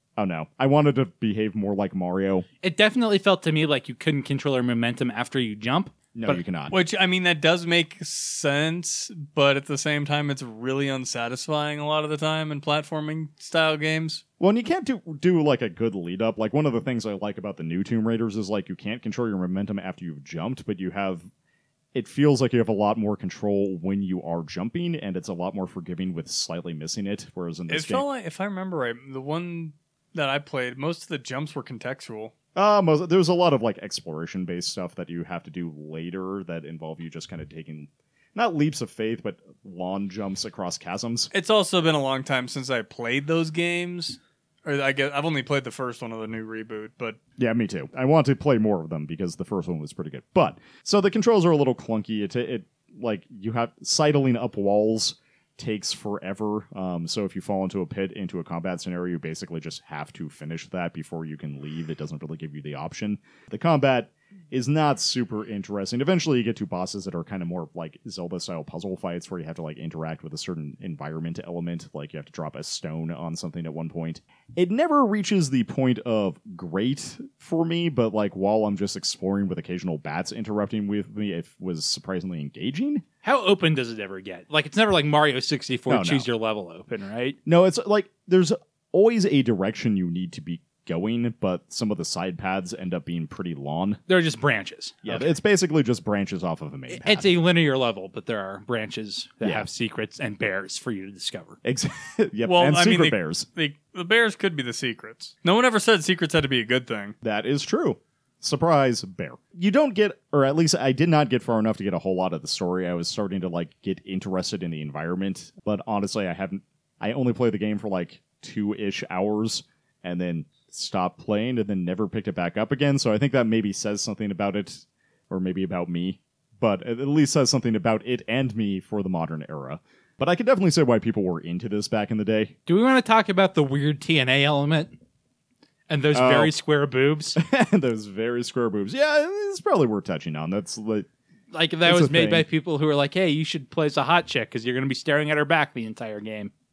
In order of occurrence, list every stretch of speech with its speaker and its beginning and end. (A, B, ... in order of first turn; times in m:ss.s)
0:00.2-0:02.4 A
0:02.6-0:06.4 B
0:06.1-0:06.7 A
0:06.7-0:14.2 C
0:14.4-0:21.2 A
0:21.9-0:28.0 A
0:27.7-0:32.3 C
0:32.5-0:41.3 A
0:41.3-0:47.2 C
0:47.4-1:23.0 A
1:23.2-1:27.4 B
1:25.9-1:26.3 A
1:27.4-1:34.0 A
1:34.1-1:35.3 B
1:35.0-1:37.3 A
1:36.9-1:41.6 B
1:39.4-1:39.7 A
1:41.6-1:43.5 A
1:42.4-1:47.1 C
1:47.2-2:12.5 A
2:12.7-2:14.9 B
2:15.9-2:17.4 B
2:16.1-2:16.5 A
2:17.4-2:21.1 A
2:21.5-2:26.5 B
2:21.8-2:22.4 A